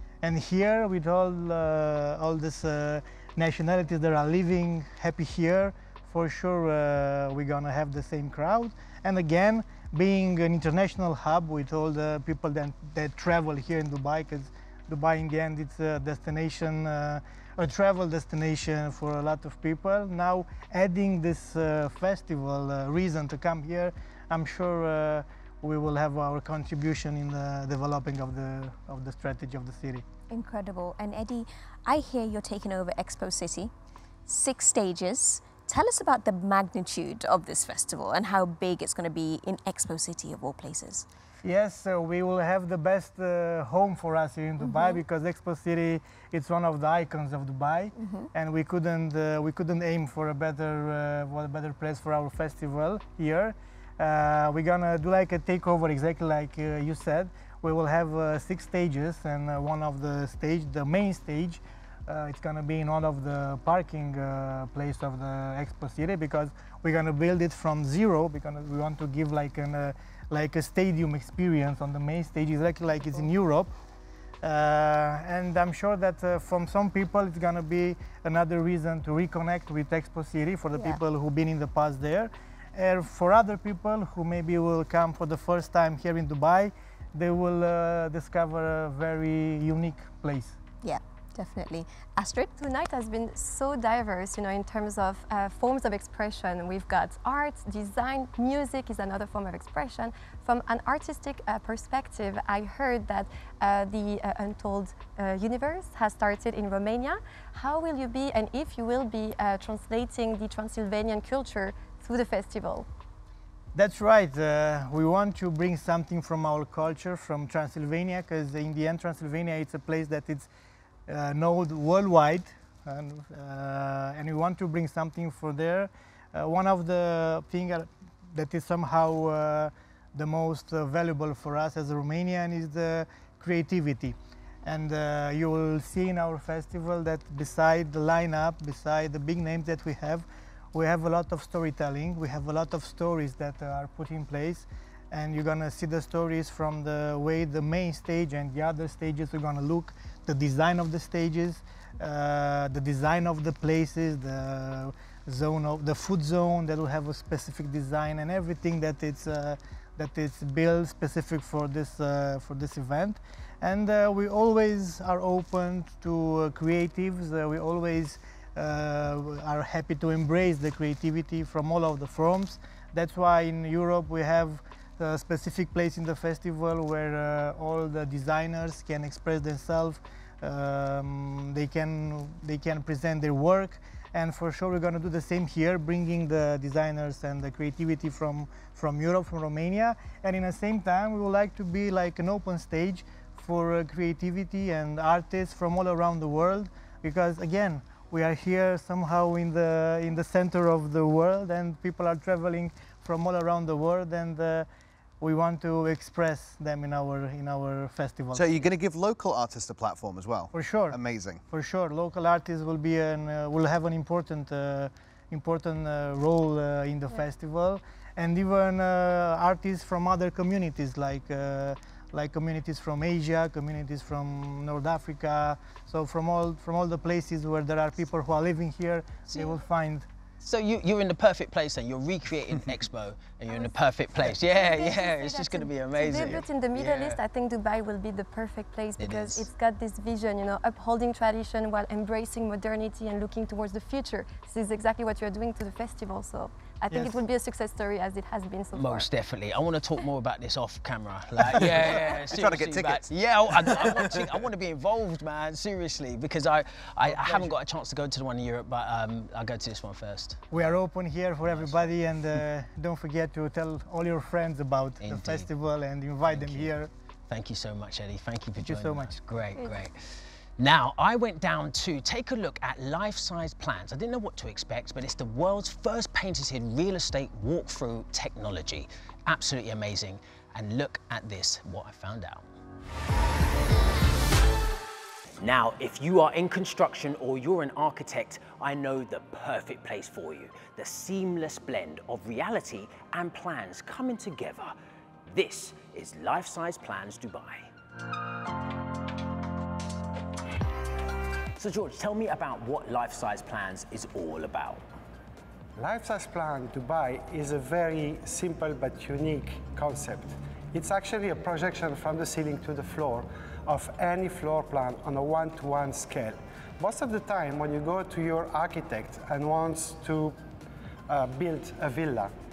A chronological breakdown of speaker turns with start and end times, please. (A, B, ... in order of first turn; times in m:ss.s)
0:00.2-0:30.0 A
0:30.3-0:33.7 B
0:34.3-0:41.0 B
0:41.4-1:13.7 A
0:44.6-0:45.0 B
0:48.0-0:48.3 B
1:14.4-1:30.6 A
1:20.7-1:21.0 B
1:30.8-1:32.5 B
1:32.6-1:52.8 C
1:53.7-2:00.5 A
2:01.1-3:24.7 A
3:25.2-3:28.5 A
3:28.3-3:31.4 D
3:30.5-3:50.1 A
3:50.4-3:57.2 E
3:54.5-4:09.1 C
3:59.0-3:59.5 E
4:06.9-4:07.2 A
4:08.7-4:20.4 E
4:11.7-4:14.3 D
4:17.0-4:17.5 A
4:20.5-4:26.9 A
4:21.5-4:21.9 E
4:25.0-4:25.5 E
4:26.2-4:26.7 E
4:27.3-4:30.0 E
4:28.6-4:29.2 A
4:29.5-4:29.8 C
4:30.6-4:42.4 E
4:45.4-4:54.8 E
4:55.3-4:57.7 E
5:01.6-5:04.8 E
5:05.8-5:20.4 F
5:21.1-5:22.3 F